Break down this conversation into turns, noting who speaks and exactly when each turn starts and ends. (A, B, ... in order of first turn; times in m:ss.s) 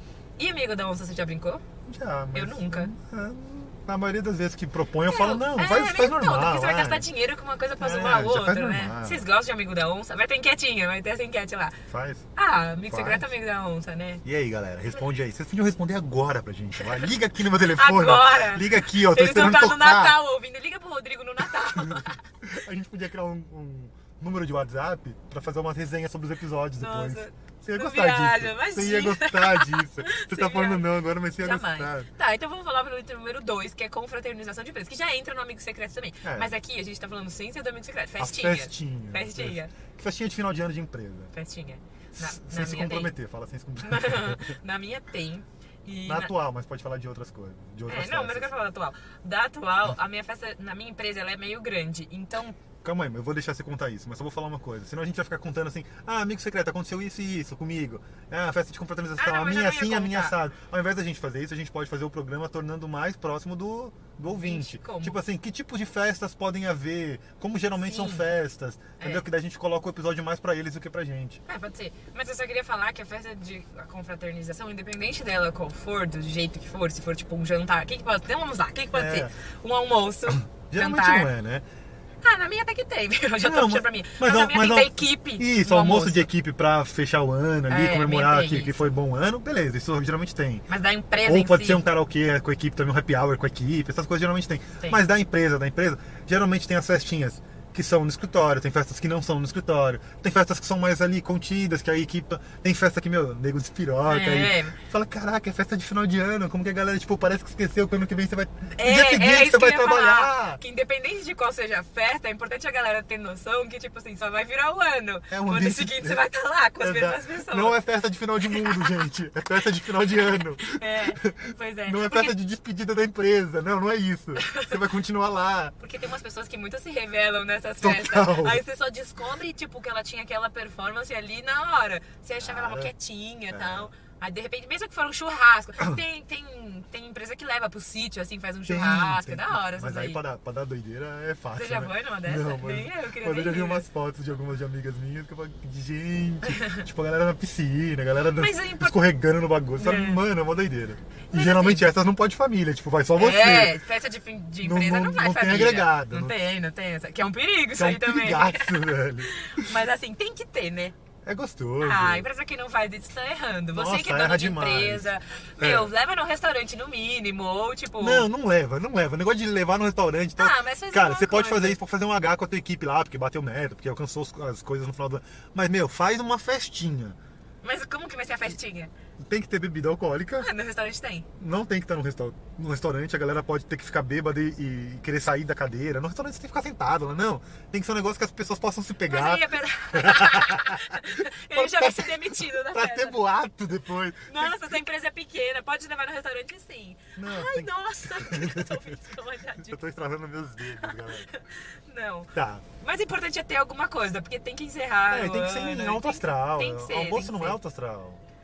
0:00.4-0:01.6 A
0:01.9-0:07.1 B
0:02.3-0:02.9 A
0:05.0-0:11.8 A
0:07.8-0:09.2 B
0:11.9-0:12.3 B
0:12.4-0:14.2 A
0:12.9-0:13.3 B
0:14.2-0:20.2 B
0:17.8-0:22.2 A
0:21.6-0:32.1 B
0:26.8-0:39.7 A
0:36.2-0:36.6 B
0:38.2-0:41.3 B
0:41.3-0:43.2 A
0:42.1-0:44.5 B
0:43.8-0:46.3 A
0:46.0-0:48.5 B
0:47.9-0:52.6 A
0:52.8-1:11.4 B
0:59.2-1:00.4 A
1:04.3-1:05.2 A
1:07.8-1:08.2 A
1:09.0-1:09.2 A
1:11.5-1:21.3 A
1:18.9-1:19.3 B
1:20.7-1:21.7 B
1:22.2-1:26.3 A
1:23.4-1:30.6 B
1:27.7-1:28.9 A
1:30.7-1:31.8 A
1:31.2-1:50.6 B
1:44.1-1:44.8 A
1:48.8-1:57.8 A
1:55.3-1:56.2 B
1:56.8-2:05.8 B
1:58.4-1:58.9 A
2:00.2-2:02.4 A
2:04.4-2:04.8 A
2:05.8-2:20.2 A
2:07.8-2:08.6 B
2:12.4-2:12.9 B
2:13.5-2:13.9 B
2:18.7-2:33.8 B
2:21.6-2:23.9 A
2:26.5-2:26.8 A
2:28.3-2:29.0 A
2:29.8-2:30.2 A
2:31.3-2:31.9 A
2:33.2-2:41.0 A
2:34.6-2:36.4 B
2:37.8-2:39.7 B
2:41.2-2:42.3 B
2:41.8-2:48.3 A
2:43.7-2:45.9 B
2:48.0-2:57.2 B
2:50.4-2:51.8 A
2:57.6-2:58.9 A
2:59.2-3:00.5 B
3:00.4-3:01.3 A
3:01.4-3:14.7 B
3:09.1-3:13.2 A
3:14.3-3:19.8 A
3:17.2-3:19.0 B
3:19.6-3:21.3 B
3:20.8-3:27.6 A
3:22.3-3:22.6 B
3:25.1-3:28.2 B